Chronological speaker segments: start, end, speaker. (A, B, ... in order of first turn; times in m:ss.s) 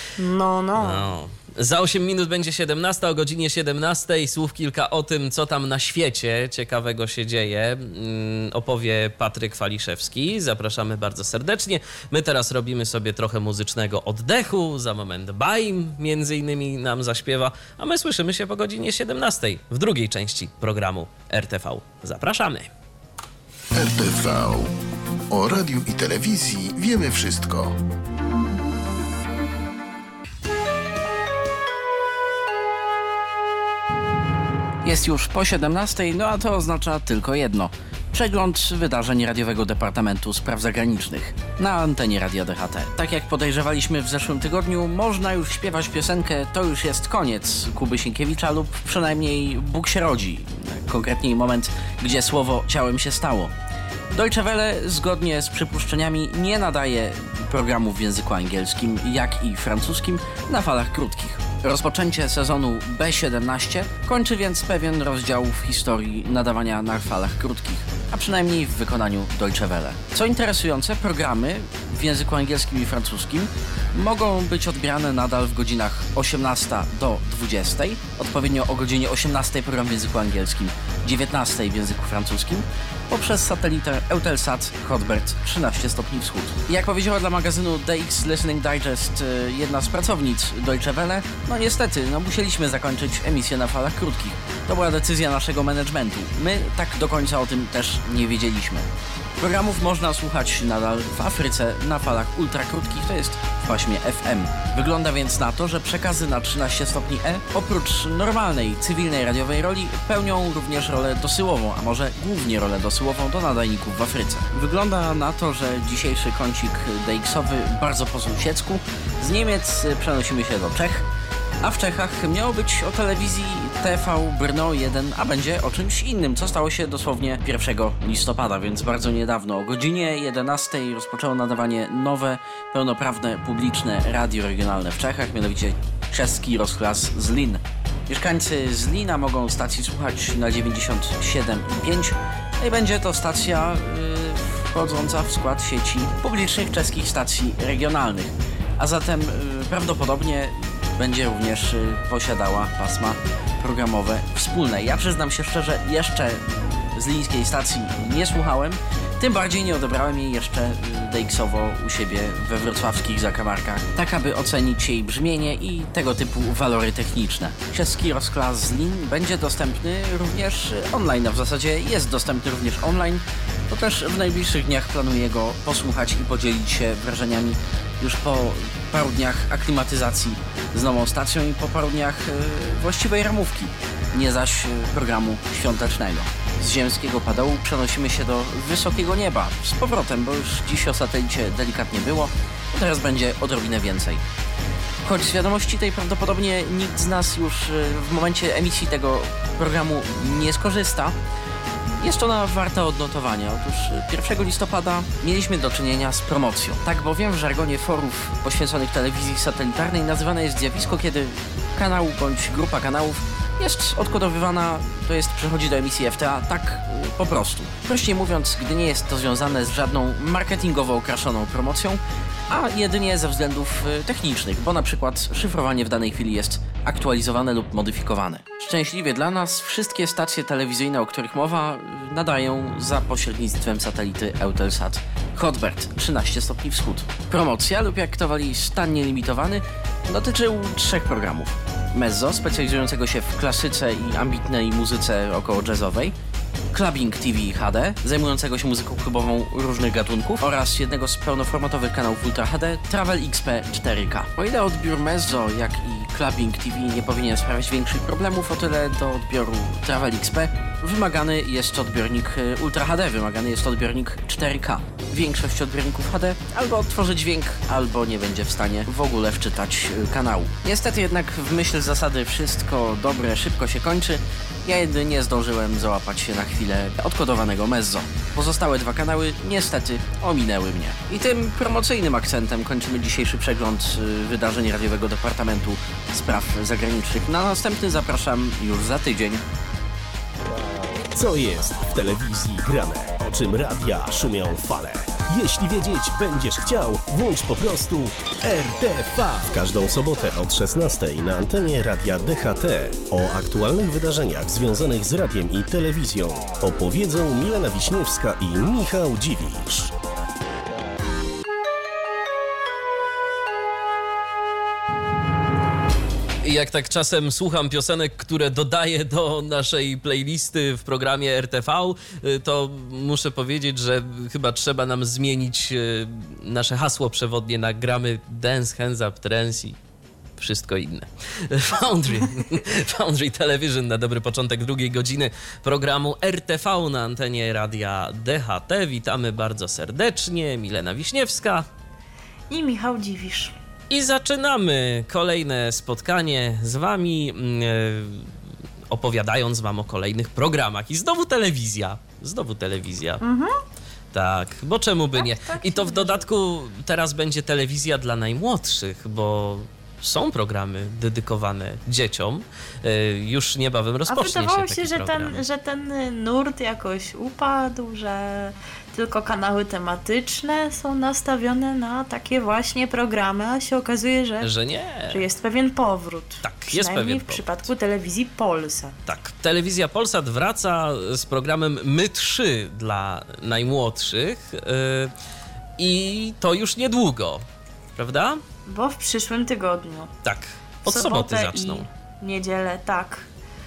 0:00.2-0:01.1 A
0:00.8-0:22.7 B
0:23.8-0:24.7 C
0:25.3-0:27.8 C
0:34.8-0:53.5 D
0:54.1-2:01.0 D
2:01.6-3:14.2 D
3:15.0-3:21.2 D
3:22.0-4:06.1 D
4:06.7-4:49.4 D
4:51.1-5:09.9 E
5:16.4-5:29.8 B
5:30.4-5:41.6 B
5:42.5-5:43.5 A
5:43.9-5:48.3 B
5:48.9-5:53.2 B
5:53.2-5:53.5 A
5:54.1-6:05.4 B
5:55.1-5:56.3 A
6:04.1-6:14.5 A
6:14.4-6:15.2 B
6:15.1-6:19.0 A
6:16.4-6:17.5 B
6:19.1-6:25.1 B
6:25.8-6:27.4 B
6:28.0-6:28.4 B
6:28.7-6:30.1 A
6:30.2-6:31.9 B
6:30.9-6:33.3 A